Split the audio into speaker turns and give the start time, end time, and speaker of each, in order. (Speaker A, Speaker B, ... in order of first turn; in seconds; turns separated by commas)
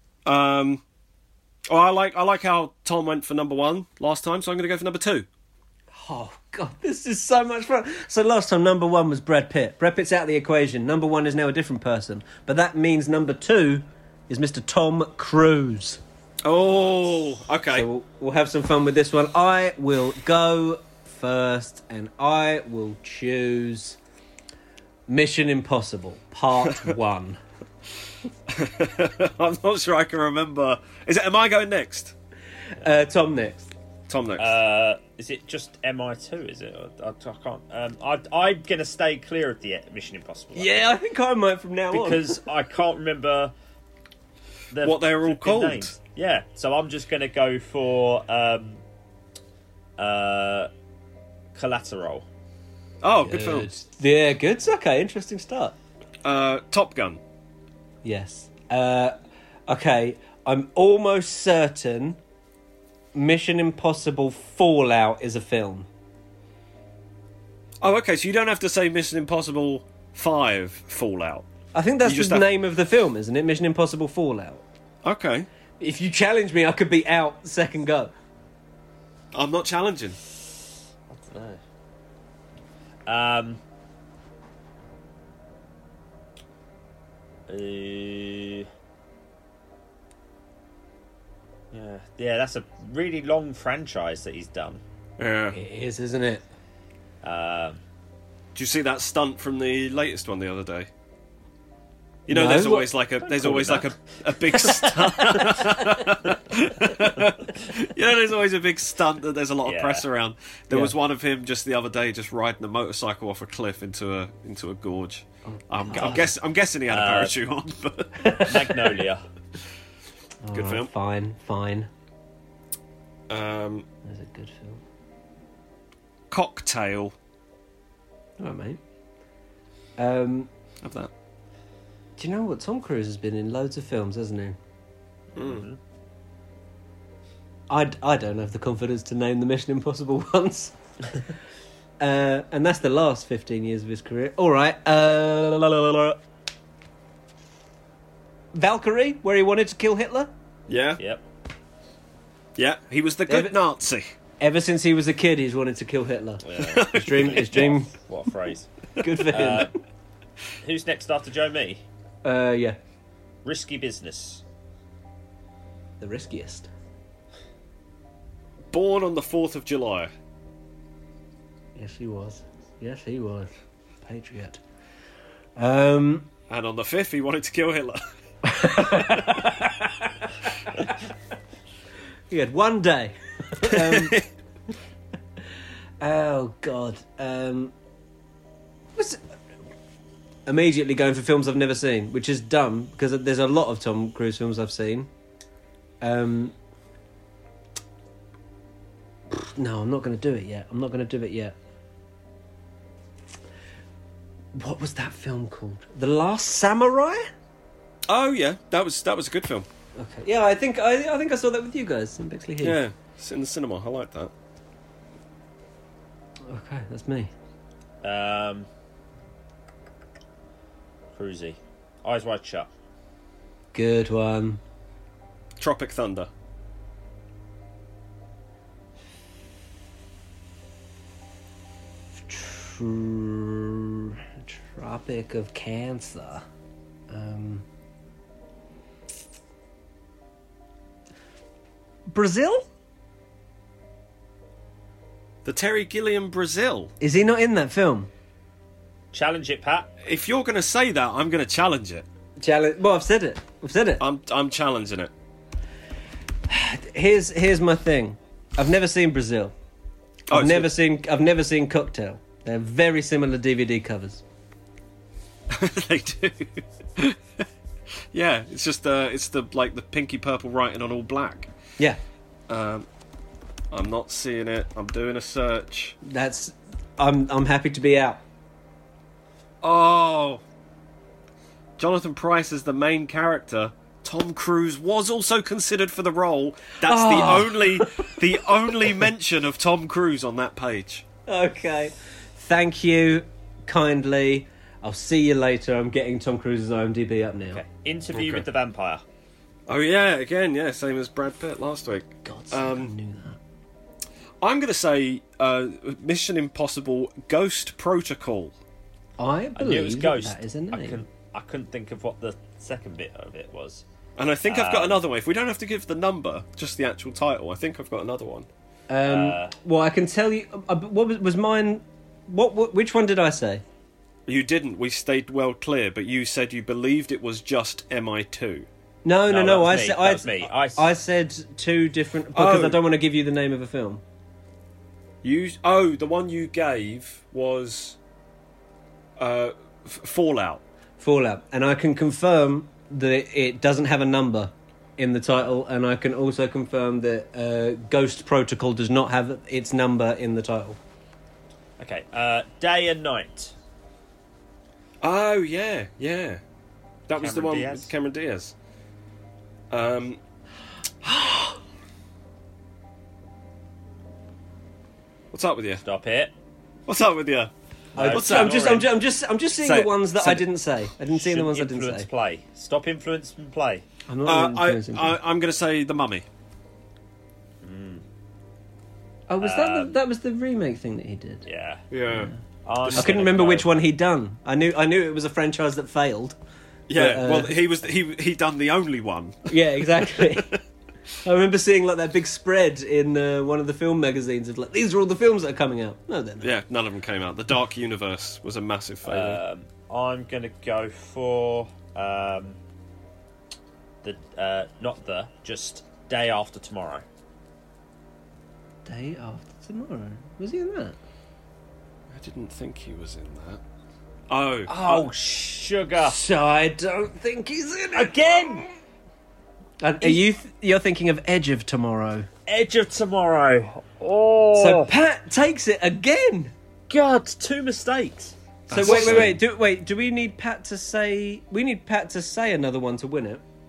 Speaker A: 0.2-0.8, Speaker A: 1.7-5.3, Speaker B: 5.9-16.0, Speaker A: 16.4-17.9, Speaker B: 17.7-24.0, Speaker B: 25.1-27.4, Speaker A: 28.5-32.1, Speaker B: 32.8-33.7, Speaker A: 34.1-34.5, Speaker C: 34.4-40.8, Speaker B: 40.5-42.4, Speaker C: 41.9-43.5, Speaker C: 44.7-48.8, Speaker A: 44.8-45.9, Speaker C: 50.0-50.7, Speaker C: 51.5-52.2, Speaker A: 53.0-53.7, Speaker B: 53.2-55.8, Speaker A: 56.2-57.2, Speaker B: 58.0-59.1, Speaker B: 59.7-62.2, Speaker B: 63.1-65.9, Speaker A: 67.8-71.5, Speaker B: 71.7-74.6, Speaker A: 72.0-72.5, Speaker A: 75.0-75.5, Speaker B: 75.8-78.1, Speaker A: 79.3-80.2, Speaker C: 81.1-81.6, Speaker C: 83.0-83.6, Speaker C: 87.5-88.7, Speaker C: 91.7-94.8, Speaker A: 95.2-95.6, Speaker B: 95.5-96.4, Speaker C: 97.2-97.8, Speaker A: 98.5-100.9, Speaker A: 102.3-118.5, Speaker B: 102.3-102.9, Speaker C: 103.2-103.9, Speaker C: 104.5-105.7, Speaker C: 109.6-110.0, Speaker B: 115.5-116.3, Speaker C: 116.9-117.4, Speaker C: 118.3-119.2, Speaker B: 120.4-121.9, Speaker A: 120.5-120.9, Speaker A: 123.3-123.8, Speaker B: 124.0-124.8, Speaker A: 126.3-127.1, Speaker B: 128.4-128.8, Speaker B: 130.0-130.5, Speaker A: 130.8-131.1, Speaker B: 132.2-134.6, Speaker A: 135.3-135.6, Speaker C: 135.3-135.8, Speaker B: 137.7-140.7, Speaker B: 142.0-146.2, Speaker B: 148.5-150.3, Speaker A: 150.7-151.0, Speaker A: 152.6-154.2, Speaker B: 153.3-153.6, Speaker B: 154.4-157.9, Speaker C: 156.4-158.7, Speaker A: 156.6-157.7, Speaker B: 159.0-159.7, Speaker C: 159.3-159.7, Speaker C: 160.6-161.8, Speaker B: 162.2-162.8, Speaker C: 163.4-164.4, Speaker B: 166.0-166.7, Speaker A: 168.7-170.1, Speaker B: 171.8-173.5, Speaker B: 174.0-174.6, Speaker B: 175.6-176.3, Speaker A: 176.5-178.0, Speaker B: 178.4-180.1, Speaker B: 182.3-184.2, Speaker A: 183.7-184.2, Speaker B: 186.0-187.7, Speaker B: 188.9-189.2, Speaker B: 190.4-195.1, Speaker B: 196.0-196.5, Speaker B: 199.3-201.5, Speaker B: 204.5-207.2, Speaker A: 208.1-209.7, Speaker B: 209.9-212.8, Speaker A: 212.6-214.3, Speaker B: 216.5-217.3, Speaker C: 218.0-218.7, Speaker C: 221.1-222.7, Speaker B: 223.7-224.6, Speaker A: 225.6-226.3, Speaker B: 232.2-236.4, Speaker B: 237.1-237.7, Speaker B: 242.1-242.7, Speaker A: 245.4-246.9, Speaker B: 247.0-248.1, Speaker C: 249.1-249.9, Speaker A: 250.0-252.1, Speaker B: 252.4-254.0, Speaker A: 254.0-255.1, Speaker B: 256.5-259.5, Speaker A: 260.3-260.7, Speaker B: 260.3-264.2, Speaker A: 265.5-267.1, Speaker A: 268.1-271.5, Speaker A: 272.5-272.9, Speaker A: 273.7-276.0, Speaker B: 276.0-278.2, Speaker A: 279.6-280.4, Speaker A: 281.8-291.0, Speaker B: 286.8-288.1, Speaker B: 291.3-297.6, Speaker C: 297.5-299.0, Speaker A: 298.1-298.4, Speaker A: 299.7-302.9, Speaker B: 302.2-303.4, Speaker A: 304.4-308.5, Speaker B: 309.2-311.0, Speaker C: 309.5-313.8, Speaker A: 314.2-318.5, Speaker C: 314.4-315.0, Speaker B: 318.9-323.6, Speaker C: 319.0-319.5, Speaker A: 324.3-328.7, Speaker B: 329.0-334.0, Speaker C: 329.3-330.9, Speaker A: 332.3-332.8, Speaker A: 335.2-338.0, Speaker A: 339.2-340.6, Speaker B: 341.0-350.8, Speaker C: 351.8-353.5, Speaker A: 355.0-356.4, Speaker A: 357.1-358.5, Speaker C: 357.2-357.9, Speaker A: 359.7-360.2, Speaker B: 361.1-361.4, Speaker A: 365.3-365.8, Speaker C: 365.8-366.3, Speaker A: 366.9-368.9, Speaker C: 367.9-368.9, Speaker B: 367.9-372.1, Speaker A: 369.5-370.5, Speaker C: 371.1-373.8, Speaker B: 374.1-375.2, Speaker A: 374.2-376.2, Speaker C: 377.6-378.0, Speaker B: 379.3-381.4, Speaker C: 379.4-379.9, Speaker C: 381.4-381.8, Speaker A: 381.9-382.3, Speaker B: 382.1-382.4, Speaker C: 382.6-383.7, Speaker A: 382.8-383.2, Speaker B: 382.9-386.4, Speaker A: 386.9-390.5, Speaker B: 386.9-387.6, Speaker B: 389.5-390.5, Speaker B: 391.2-396.5, Speaker A: 396.4-399.4, Speaker C: 399.1-402.6, Speaker C: 404.0-407.0, Speaker B: 408.8-411.0, Speaker A: 412.1-413.6, Speaker A: 414.3-415.1, Speaker C: 414.7-416.2, Speaker B: 416.0-418.7, Speaker C: 417.9-418.6, Speaker B: 419.8-422.3, Speaker C: 420.0-420.2, Speaker C: 422.5-424.9, Speaker B: 424.5-426.5, Speaker C: 426.9-429.4, Speaker B: 428.7-433.4, Speaker A: 428.7-429.4